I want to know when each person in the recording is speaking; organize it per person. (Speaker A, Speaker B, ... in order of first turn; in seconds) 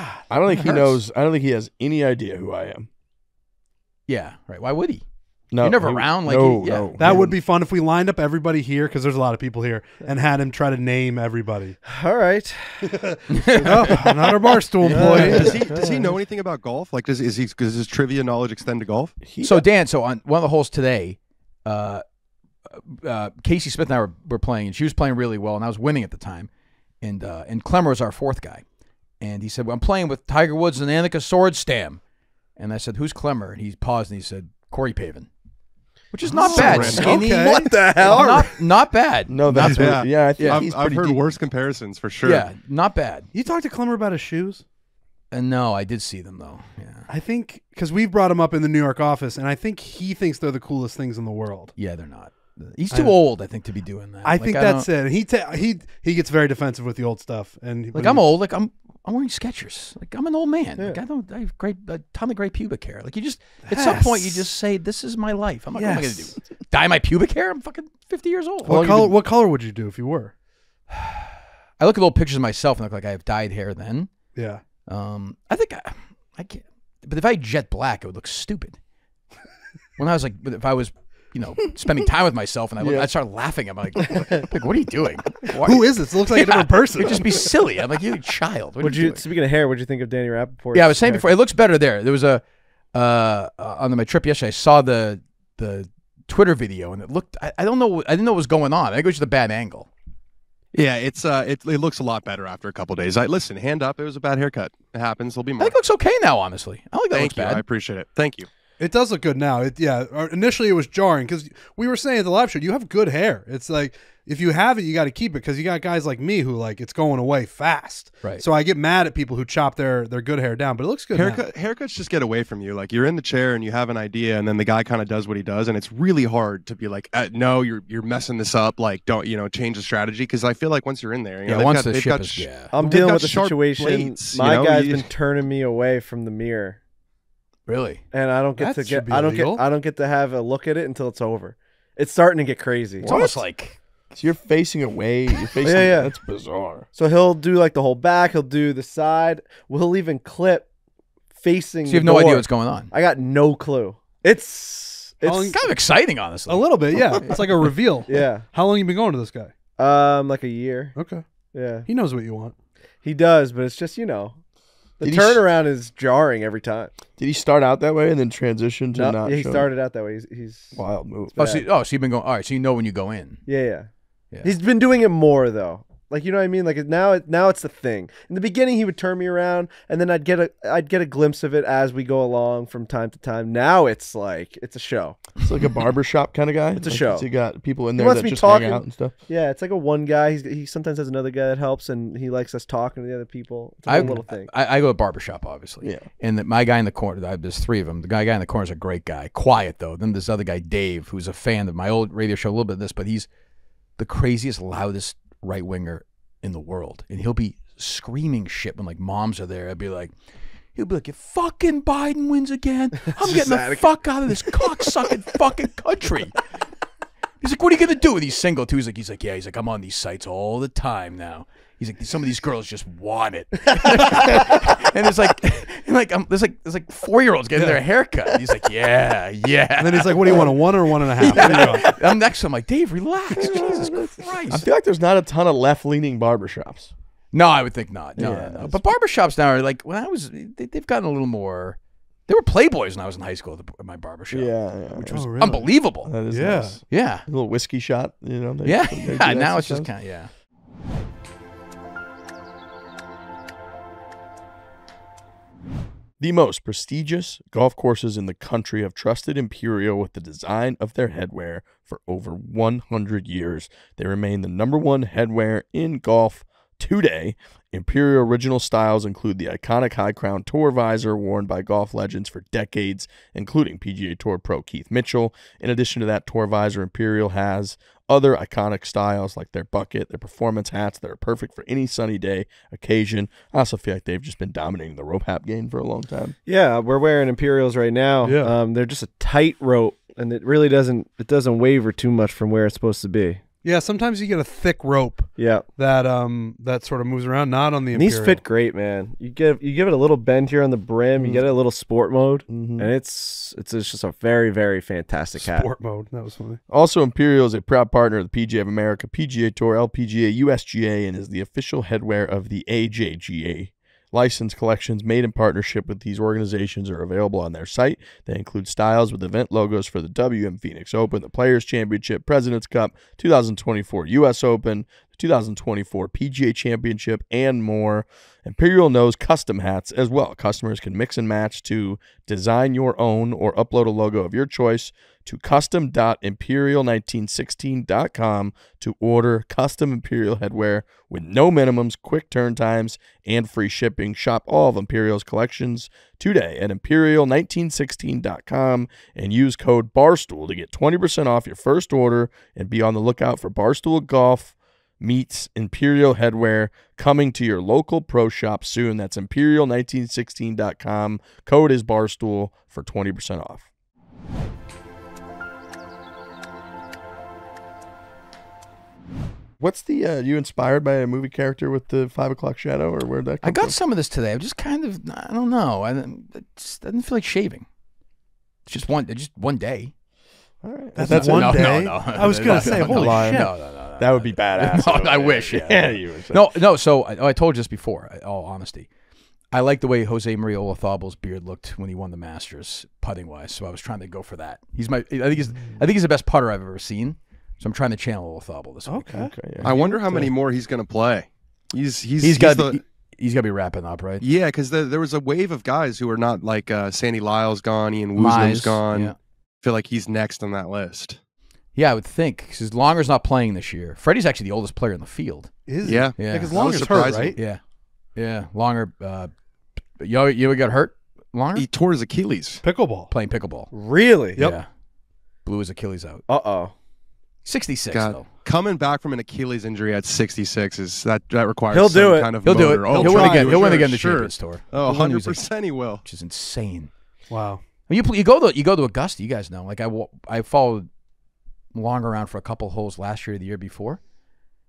Speaker A: 0.3-2.9, 5.5-7.3, 19.2-19.7, 39.3-41.2, 68.6-69.1, 82.8-83.1, 143.0-143.4, 144.1-146.9, 165.0-165.4, 167.2-169.7, 170.7-171.4, 185.4-189.1, 193.9-194.2, 195.8-196.1, 231.2-232.0, 233.3-236.9, 238.2-238.9, 244.3-249.9, 256.2-286.4, 301.1-301.5, 302.5-302.9, 306.7-363.6, 369.6-373.8, 380.6-386.6, 399.1-399.8
Speaker B: 0.5-1.0, 4.1-5.0, 5.6-7.2, 13.3-14.1, 14.8-15.6, 19.4-22.0, 22.6-26.5, 27.0-28.6, 29.2-32.0, 32.5-35.3, 36.1-40.7, 42.2-43.3, 45.3-47.1, 51.8-54.9, 57.9-68.8, 70.9-71.2, 71.8-74.1, 74.9-78.8, 80.0-89.2, 90.7-99.9, 105.6-107.6, 131.4-132.7, 137.7-138.0, 143.0-143.8, 151.8-152.9, 155.4-157.3, 171.3-173.4, 193.8-203.3, 204.0-210.1, 210.7-216.4, 217.4-230.5, 231.2-234.7, 237.3-246.2, 246.9-247.3, 248.6-250.3, 373.4-377.6, 378.6-379.9, 381.0-388.9, 389.5-399.1, 402.2-404.2, 408.1-409.1, 411.7-415.5, 416.1-417.6, 418.1-419.3, 420.0-421.7, 423.1-423.7, 424.4-424.7, 425.4-426.2, 427.4-428.3, 432.4-435.5, 436.0-436.9, 437.9-440.9, 441.7-444.0
Speaker C: 7.0-11.8, 13.6-16.1, 36.2-38.5, 43.3-44.6, 47.1-51.7, 52.9-53.2, 54.2-58.2, 63.6-64.5, 65.7-66.4, 68.6-70.3, 74.3-74.6, 85.6-87.5, 108.8-121.4, 138.6-139.6, 155.2-155.7, 156.4-159.5, 160.9-161.2, 161.8-162.5, 227.5-227.8, 229.8-231.9, 245.1-245.7, 246.3-246.8, 288.2-288.5, 293.6-298.4, 305.4-306.6, 380.9-383.5, 398.9-400.3, 415.7-417.4, 422.6-423.1, 432.9-433.9, 437.3-437.6
Speaker D: 7.0-7.3, 11.8-14.2, 14.9-16.1, 36.5-38.5, 88.8-91.3, 132.7-136.8, 138.1-143.1, 145.6-146.1, 146.9-150.7, 151.4-155.6, 158.1-158.5, 159.8-160.9, 161.5-161.9, 163.0-164.4, 165.0-166.9, 168.9-170.8, 171.4-171.7, 173.4-173.9, 174.4-185.2, 186.8-187.3, 187.9-194.5, 213.1-215.2, 286.4-293.4, 295.4-295.6, 297.9-305.7, 423.7-424.4, 426.3-426.7, 431.7-432.6
Speaker E: 15.0-19.2, 36.4-37.1, 39.5-42.5, 100.7-105.8, 107.1-108.5, 121.1-135.1, 399.6-402.8, 404.2-411.2, 415.8-417.4, 421.5-422.6, 427.9-436.0